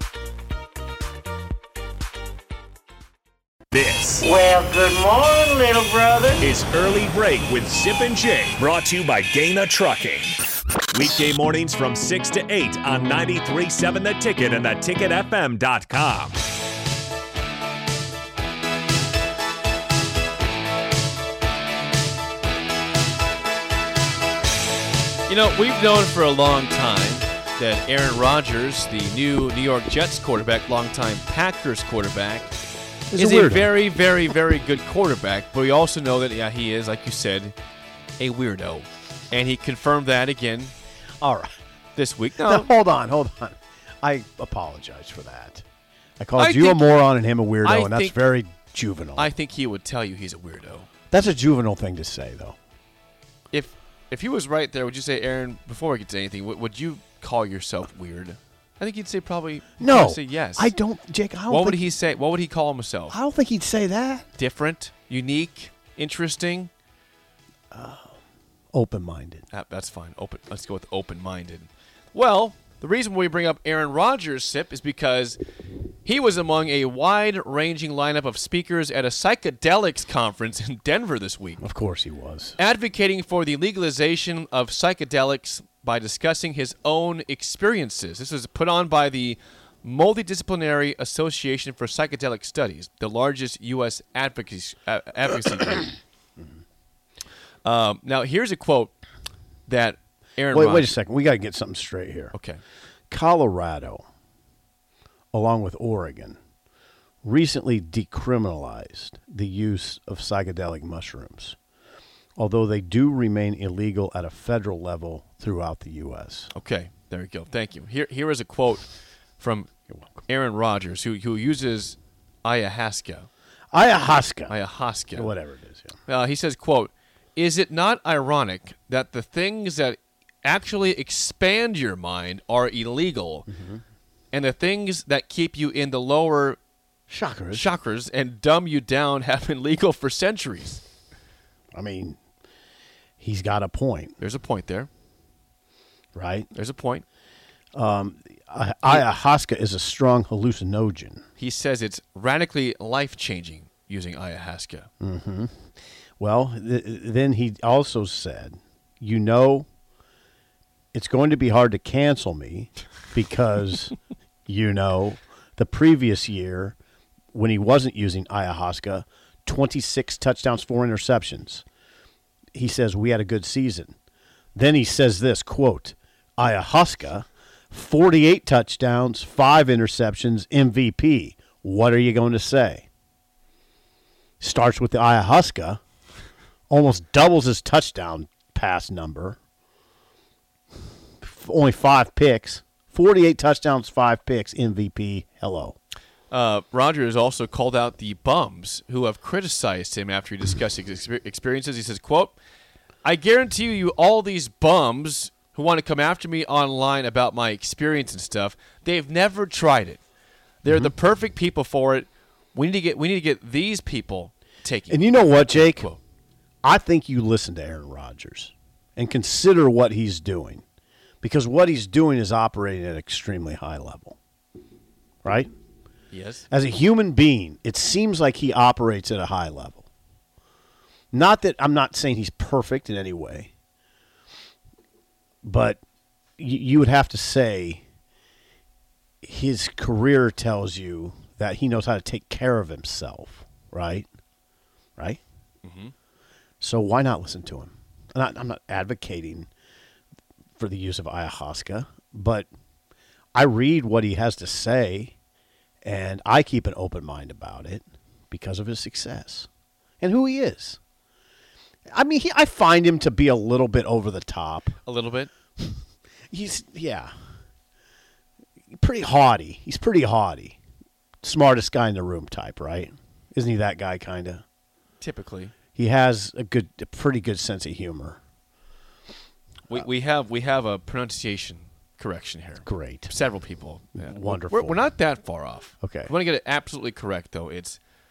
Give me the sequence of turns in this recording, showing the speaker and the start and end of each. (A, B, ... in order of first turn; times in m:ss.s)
0:03.7-0:04.3 A
0:04.3-0:06.4 B
0:06.4-0:10.3 A
0:10.9-0:16.4 A
0:25.3-0:32.5 C
0:33.1-0:33.8 D
0:33.1-0:37.6 C
0:38.2-0:40.7 C
0:41.2-0:41.5 D
0:41.9-0:42.7 C
0:42.4-0:45.6 D
0:46.2-0:49.3 D
0:46.4-0:46.8 C
0:47.6-0:48.2 C
0:49.2-0:50.9 C
0:51.1-0:52.6 D
0:53.5-1:00.7 C
0:59.8-1:01.8 D
1:01.5-1:03.2 C
1:03.1-1:04.2 D
1:04.4-1:06.7 C
1:07.7-1:08.2 D
1:08.7-1:09.4 D
1:09.5-1:15.4 C
1:16.0-1:21.6 C
1:21.6-1:22.6 D
1:22.6-1:36.0 C
1:37.6-1:38.9 C
1:39.7-1:41.0 C
1:40.5-1:42.3 D
1:42.3-1:42.6 C
1:43.1-1:44.0 D
1:45.3-1:46.4 D
1:47.2-1:51.6 D
1:52.4-1:56.5 D
1:56.5-1:58.9 C
1:59.4-1:59.7 C
1:59.9-2:00.2 D
2:00.2-2:03.3 C
2:03.7-2:04.5 D
2:04.5-2:05.3 C
2:05.1-2:05.9 D
2:06.1-2:13.5 C
2:13.5-2:13.8 D
2:14.3-2:16.6 C
2:17.1-2:17.7 D
2:17.5-2:20.8 C
2:21.7-2:22.2 D
2:23.2-2:24.2 D
2:24.2-2:24.9 C
2:26.1-2:26.5 D
2:26.5-2:27.0 C
2:27.7-2:31.2 D
2:31.4-2:34.9 C
2:35.0-2:35.5 D
2:36.2-2:39.7 D
2:40.9-2:46.8 D
2:47.3-2:51.6 D
2:52.5-2:53.9 D
2:54.5-3:02.9 D
3:04.4-3:05.8 D
3:06.7-3:09.4 D
3:11.2-3:15.8 D
3:16.3-3:22.4 C
3:23.0-3:30.0 C
3:30.6-3:36.0 C
3:30.6-3:30.9 D
3:34.9-3:35.9 D
3:36.6-3:40.6 D
3:41.2-3:44.2 D
3:45.2-3:45.5 D
3:46.1-3:46.4 C
3:46.5-3:49.9 D
3:51.1-3:53.5 D
3:55.4-3:55.8 D
3:56.4-3:57.8 D
3:59.2-4:04.1 D
4:05.6-4:05.9 C
4:06.6-4:09.5 D
4:10.6-4:12.5 D
4:13.3-4:15.1 D
4:15.8-4:19.5 D
4:20.0-4:20.8 D
4:21.9-4:24.8 D
4:24.8-4:25.3 C
4:26.3-4:27.1 D
4:28.7-4:30.6 D
4:31.2-4:34.4 D
4:35.0-4:35.5 C
4:35.7-4:38.2 D
4:39.7-4:47.8 C
4:42.6-4:43.1 D
4:44.0-4:44.9 D
4:45.8-4:46.1 D